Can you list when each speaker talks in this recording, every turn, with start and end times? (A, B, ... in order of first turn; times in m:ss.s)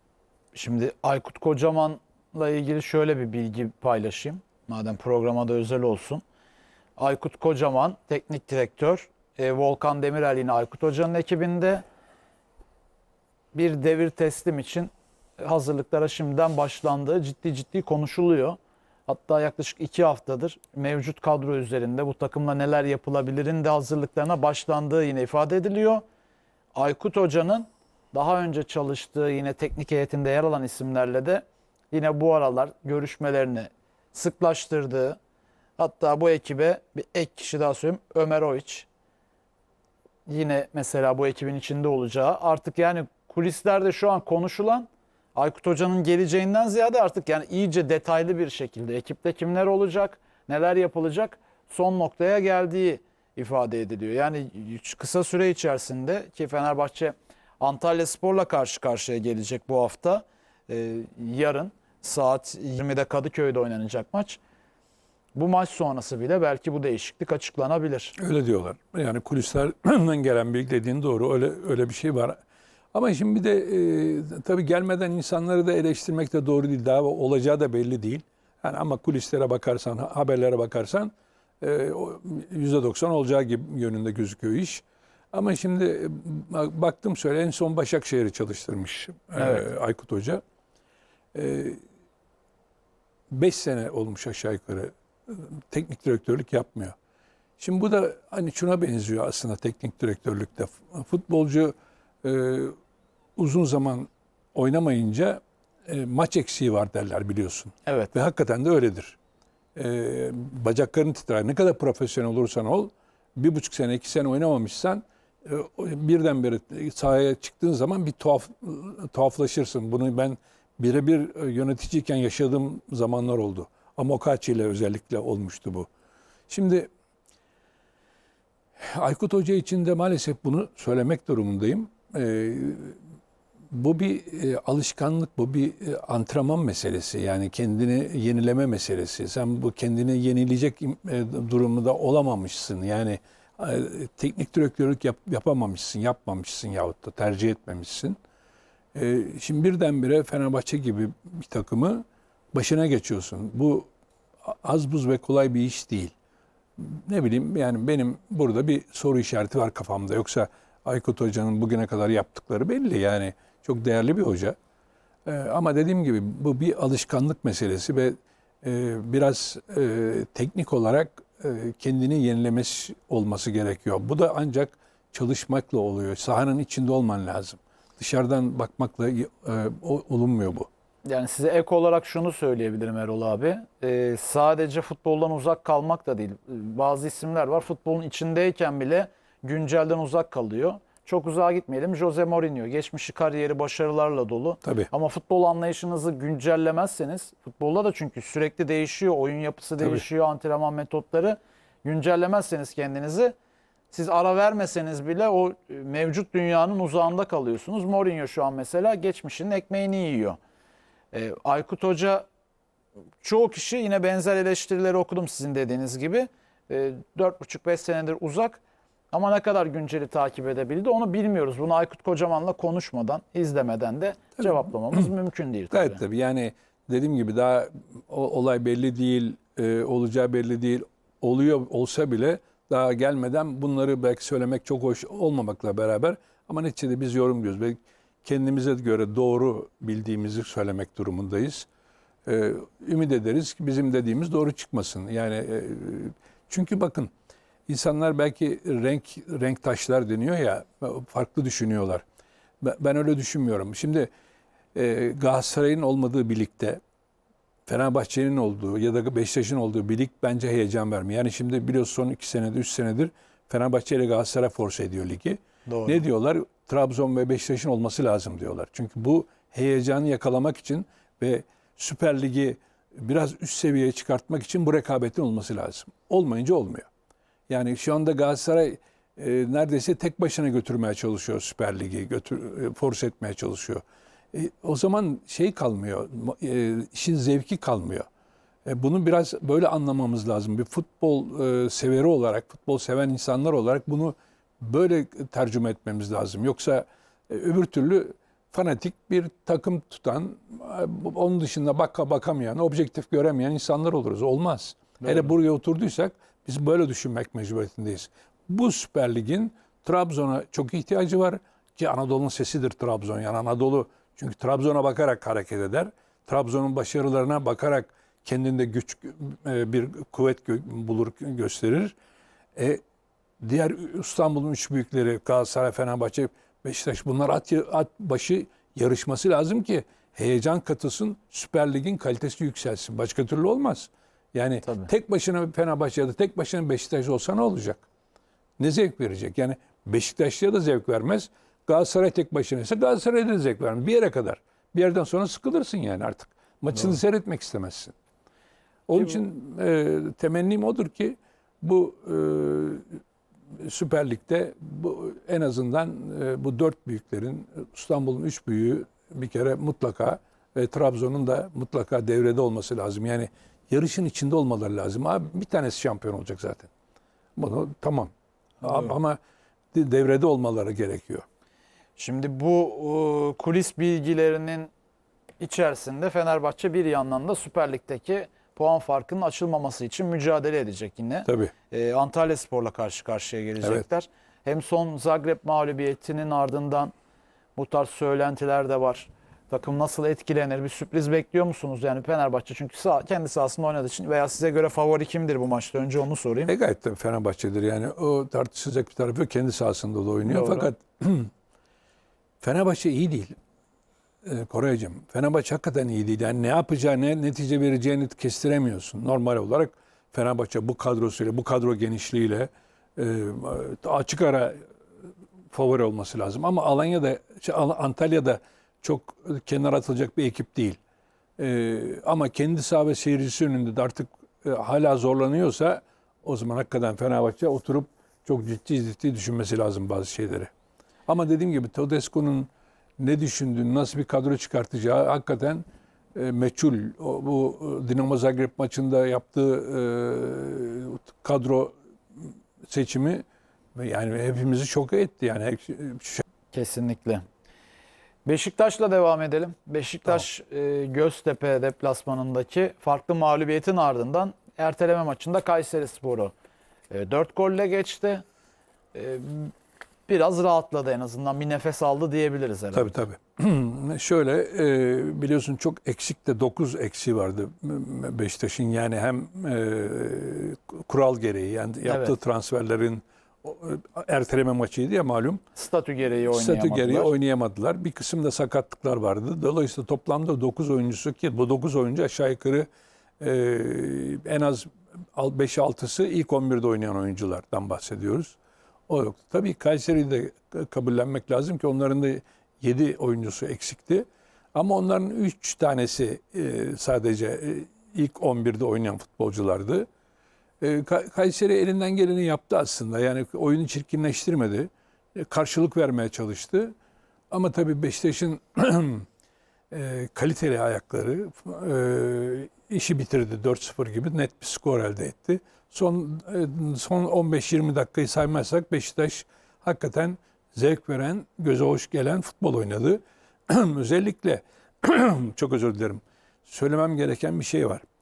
0:00.5-0:06.2 A
0:07.0-0:11.8 A
0:13.5-0:26.0 A
0:26.7-0:35.2 A
0:35.8-0:38.9 A
0:40.3-1:04.4 A
1:05.3-1:08.2 A
1:08.2-1:12.4 B
1:12.9-1:30.4 B
1:29.4-1:29.6 A
1:31.3-1:31.8 B
1:33.3-1:36.9 B
1:37.6-1:42.7 B
1:43.4-1:49.2 B
1:47.8-1:48.1 A
1:49.7-2:05.9 B
2:06.5-2:06.9 B
2:08.8-2:13.0 B
2:13.7-2:28.2 B
2:28.9-2:33.9 B
2:34.4-2:36.1 B
2:36.8-2:44.6 B
2:45.2-3:00.7 B
3:01.0-3:23.3 A
3:14.6-3:14.9 B
3:23.9-3:30.4 A
3:31.1-3:32.3 A
3:33.2-3:46.0 A
3:45.7-4:01.7 B
4:02.2-4:07.1 B
4:07.7-4:12.0 B
4:12.6-4:14.1 B
4:14.7-4:16.8 B
4:17.7-4:36.9 B
4:25.7-4:26.0 A
4:37.5-4:43.8 B
4:44.3-4:48.1 B
4:48.6-5:22.0 B
5:05.0-5:05.3 A
5:22.6-5:22.8 B
5:23.4-5:37.8 B
5:34.6-5:34.9 A
5:38.6-5:47.9 B
5:48.9-5:52.8 B
5:53.6-6:06.7 B
6:07.4-6:09.2 B
6:08.6-6:08.9 A
6:09.7-6:11.2 B
6:12.0-6:14.7 A
6:15.4-6:26.9 A
6:21.2-6:21.5 B
6:27.6-6:36.5 A
6:36.5-6:41.3 B
6:40.2-6:40.7 A
6:42.4-6:43.3 B
6:44.2-6:54.6 B
6:55.5-7:00.8 B
7:01.4-7:10.5 B
7:11.1-7:15.6 B
7:16.1-7:23.2 B
7:23.8-7:26.2 B
7:26.5-7:27.2 A
7:28.2-7:36.3 A
7:36.9-7:38.2 A
7:38.9-7:39.5 A
7:40.1-7:42.9 A
7:42.7-7:55.4 B
7:51.8-7:52.1 A
7:55.5-7:57.1 A
7:56.3-8:02.7 B
8:03.2-8:08.4 B
8:08.9-8:19.9 B
8:20.6-8:26.7 B
8:27.3-8:29.0 B
8:29.7-8:47.8 B